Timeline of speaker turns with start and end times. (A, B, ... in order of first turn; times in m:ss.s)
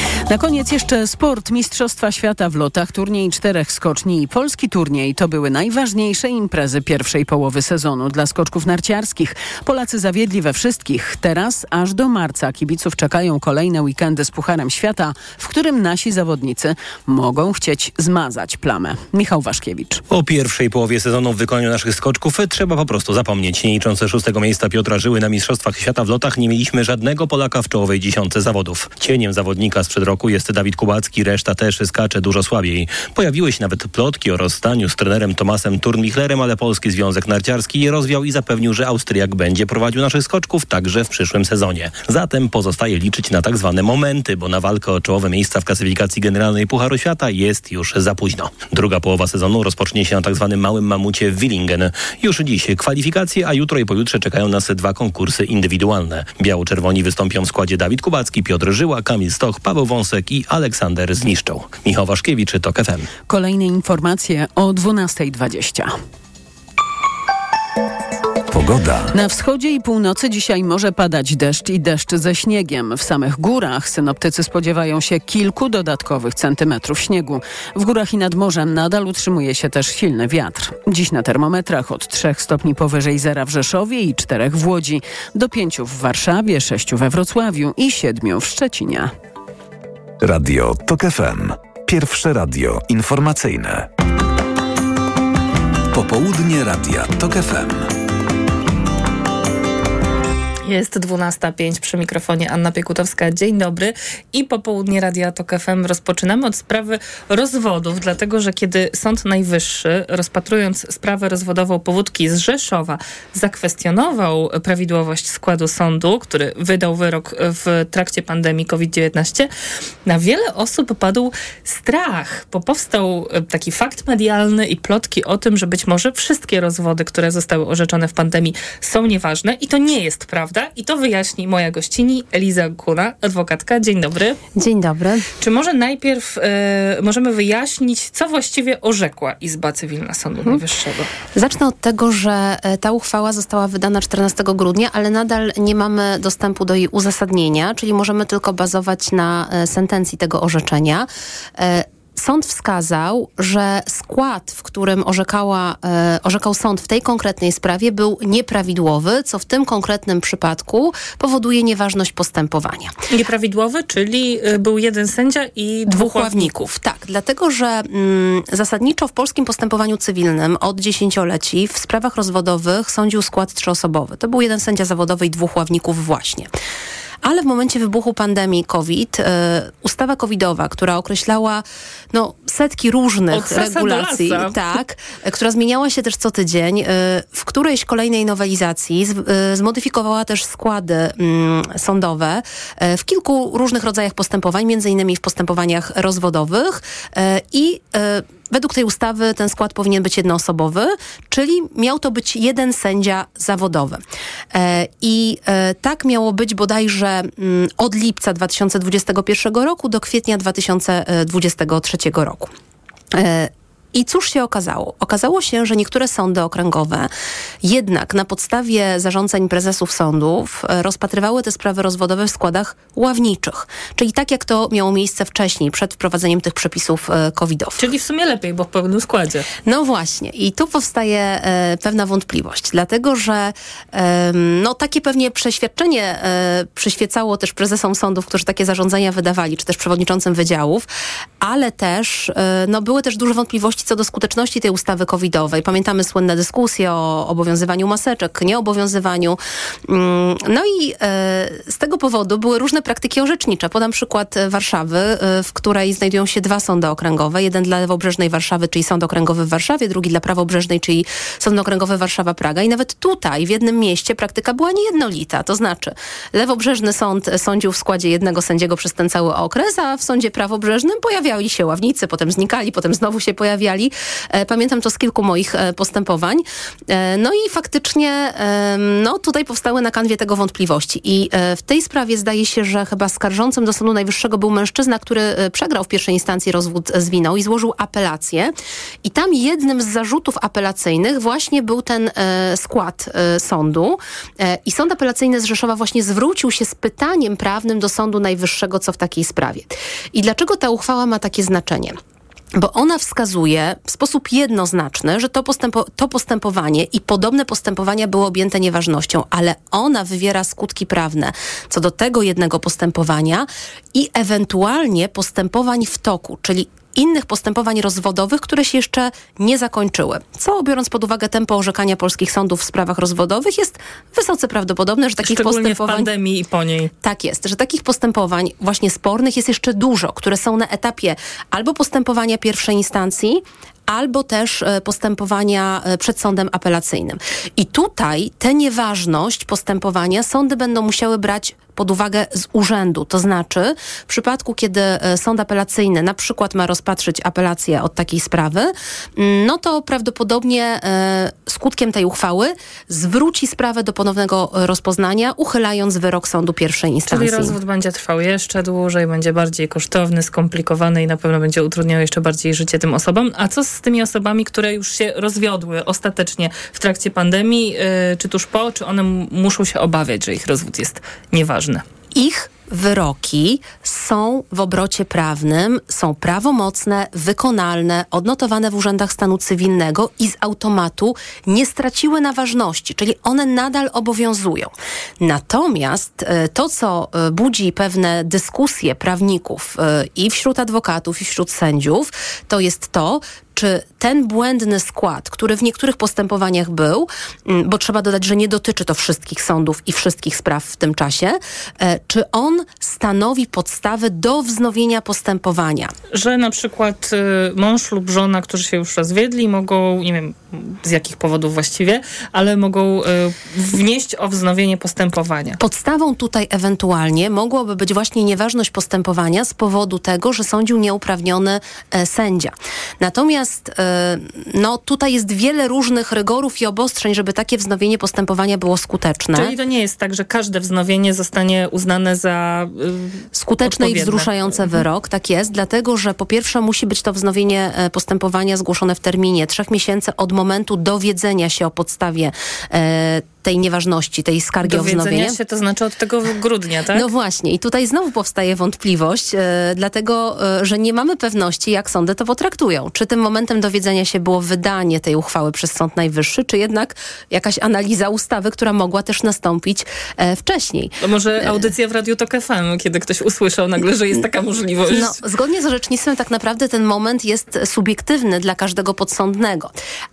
0:00.3-0:20.0 A
0:20.1-1:03.1 B
1:03.3-1:05.9 A
1:08.5-1:09.1 C
1:09.1-1:29.1 A
1:30.2-1:33.9 C
1:35.9-1:37.9 C
1:40.6-1:59.5 D
2:00.0-2:14.4 D
2:14.6-2:15.3 E
2:15.4-2:21.1 D
2:21.3-2:42.9 E
2:43.1-2:46.6 D
2:45.9-2:56.5 E
2:57.2-3:24.0 E
3:03.3-3:04.6 D
3:24.5-3:32.5 E
3:33.1-3:37.1 E
3:37.6-3:47.8 E
3:47.8-3:49.5 D
3:49.6-4:00.9 E
4:01.4-4:48.5 E
4:49.0-5:02.0 E
5:02.5-5:26.1 E
5:25.2-5:26.9 D
5:27.0-5:57.6 E
5:57.1-6:11.8 D
6:12.1-6:45.9 E
6:46.1-6:55.6 D
6:55.6-7:09.6 E
7:09.3-7:14.8 D
7:13.3-7:25.4 E
7:24.6-7:27.1 D
7:26.9-7:41.7 E
7:41.0-7:45.2 D
7:44.9-7:49.7 E